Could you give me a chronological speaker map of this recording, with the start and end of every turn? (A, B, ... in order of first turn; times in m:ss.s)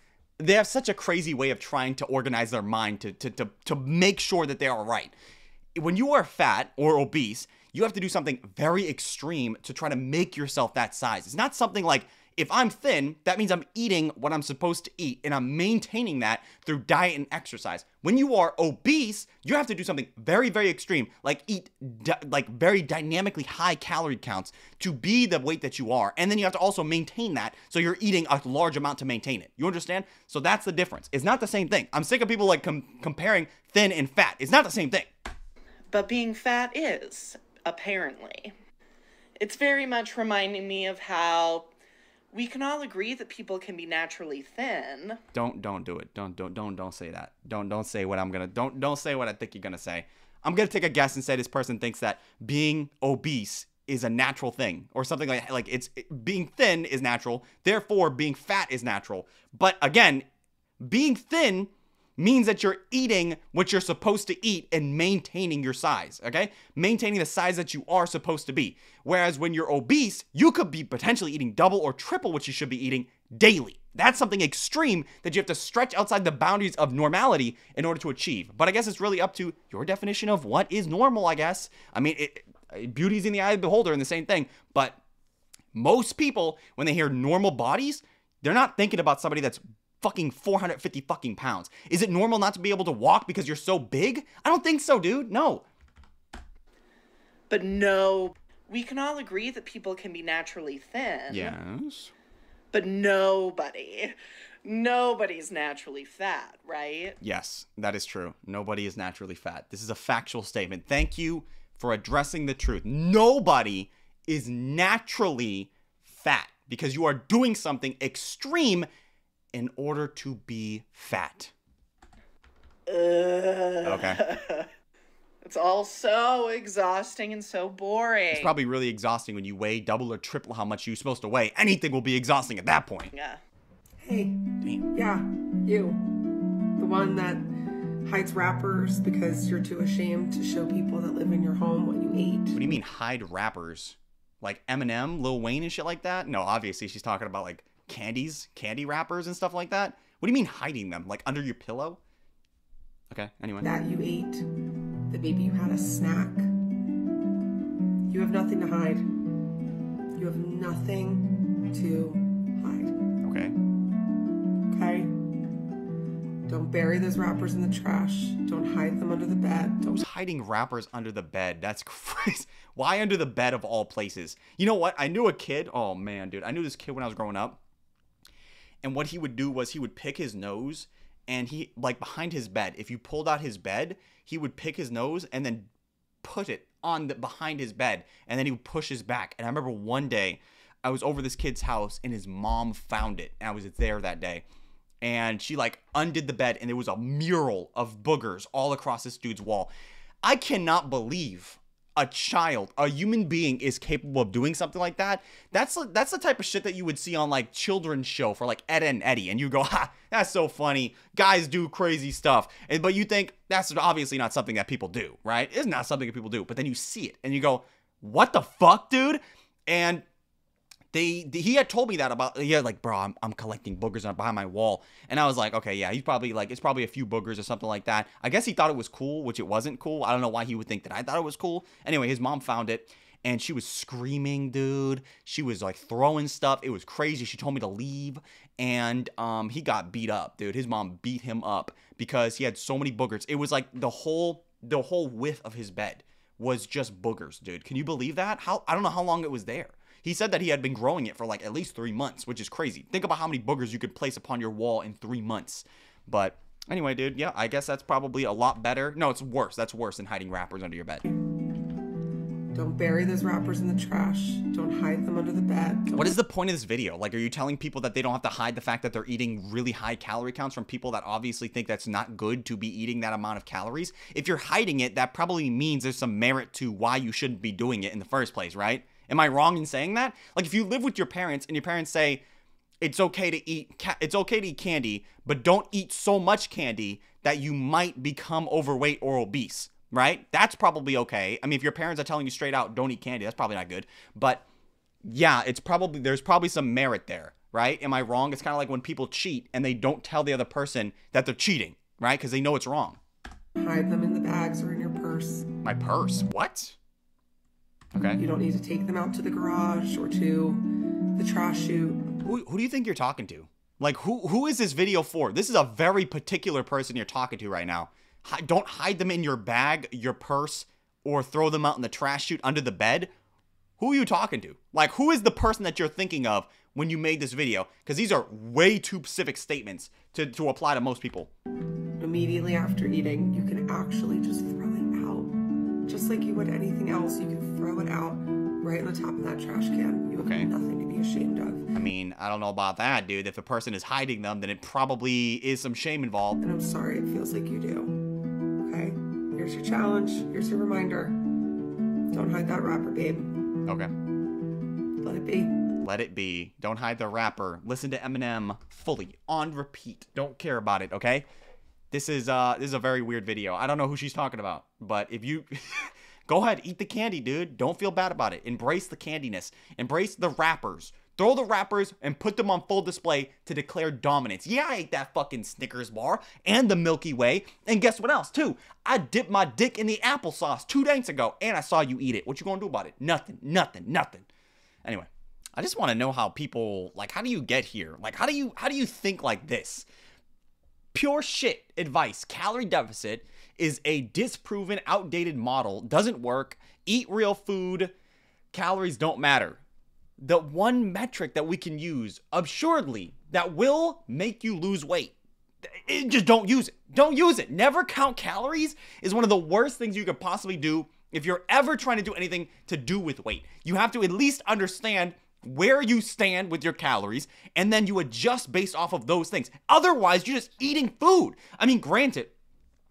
0:00.4-0:05.1 A
0:05.8-0:35.1 A
0:35.9-0:38.5 B
0:39.4-0:41.7 B
0:42.3-0:45.2 B
0:45.3-1:00.2 A
1:00.8-1:25.0 A
1:25.7-1:35.7 A
1:37.5-1:41.6 B
1:41.3-1:42.1 A
1:42.7-1:47.2 B
1:47.2-1:58.9 A
1:59.5-2:01.5 A
2:02.9-2:04.7 B
2:03.8-2:04.2 A
2:05.4-2:08.5 B
2:08.3-2:13.1 A
2:13.1-2:13.4 B
2:14.0-2:16.1 C
2:14.6-2:14.9 A
2:16.8-2:17.5 C
2:18.0-2:22.6 C
2:22.5-2:32.0 A
2:33.1-2:33.7 A
2:33.6-2:34.5 C
2:35.1-2:36.5 C
2:38.1-2:39.1 C
2:40.2-2:43.0 C
2:43.2-2:43.6 A
2:44.7-2:45.1 C
2:46.5-2:50.0 C
2:49.9-2:57.6 A
2:58.8-3:05.7 A
3:06.2-3:14.4 A
3:15.0-3:19.7 A
3:20.2-3:40.0 A
3:40.9-4:21.0 A
4:22.5-4:26.2 C
4:25.9-4:42.2 A
4:42.8-4:54.4 A
4:55.0-5:03.0 A
5:03.6-5:05.4 C
5:05.6-5:06.8 A
5:07.9-5:08.2 A
5:08.2-5:12.1 C
5:12.2-5:23.1 A
5:23.8-5:31.3 A
5:32.0-5:41.7 C
5:40.2-5:40.5 A
5:41.8-5:46.4 A
5:46.4-5:48.0 C
5:48.6-5:51.3 C
5:52.1-5:53.5 C
5:53.7-5:53.9 A
5:55.0-5:55.6 C
5:55.8-6:01.3 A
6:01.9-6:24.3 A
6:24.8-6:29.9 A
6:30.9-6:37.9 A
6:38.5-6:39.6 A
6:40.2-6:45.2 A
6:45.7-7:02.3 A